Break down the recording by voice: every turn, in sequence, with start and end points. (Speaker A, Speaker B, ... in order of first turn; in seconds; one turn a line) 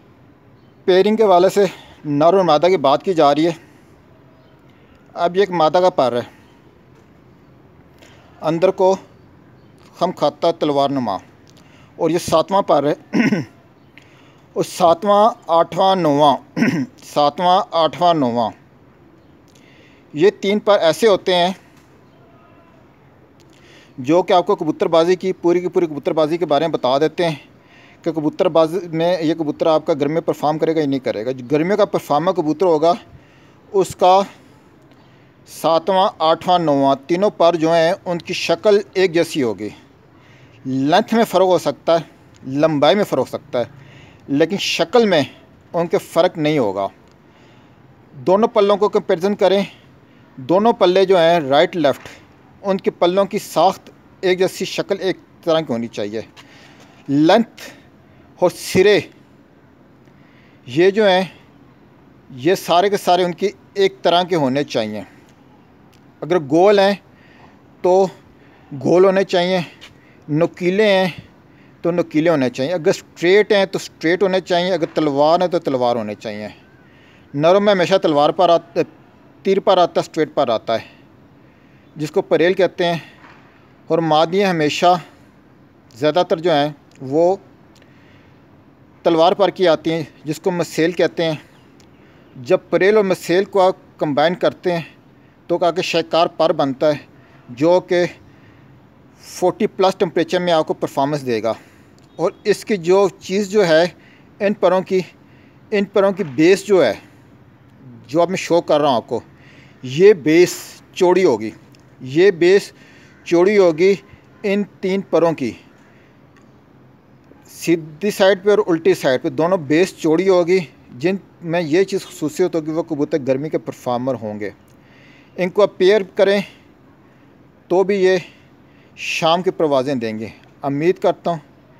Speaker A: 0.8-3.6
Speaker A: 5.2-6.3
Speaker A: 8.4-9.0
Speaker A: 9.9-11.2
Speaker A: 12.0-13.5
Speaker A: 14.5-18.5
Speaker A: 20.1-21.6
Speaker A: 24.0-27.4
Speaker A: 28.0-33.0
Speaker A: 33.7-34.2
Speaker A: 35.5-39.7
Speaker A: 40.6-43.7
Speaker A: 44.3-46.9
Speaker A: 48.2-49.7
Speaker A: 50.4-56.3
Speaker A: 57.1-57.7
Speaker A: 58.4-59.0
Speaker A: 60.7-61.3
Speaker A: 62.3-65.0
Speaker A: 66.2-67.0
Speaker A: 67.8-68.1
Speaker A: 68.7-69.7
Speaker A: 70.3-71.1
Speaker A: 71.8-76.5
Speaker A: 77.3-78.9
Speaker A: 79.4-80.8
Speaker A: 82.0-83.0
Speaker A: 83.9-85.0
Speaker A: 85.9-87.4
Speaker A: 89.0-91.4
Speaker A: 92.3-94.9
Speaker A: 95.5-98.1
Speaker A: 99.2-101.6
Speaker A: 102.2-105.0
Speaker A: 105.7-107.0
Speaker A: 108.0-109.2
Speaker A: 109.8-112.7
Speaker A: 113.2-115.5
Speaker A: 117.5-124.5
Speaker A: 125.4-126.4
Speaker A: 127.7-128.2
Speaker A: 129.0-131.4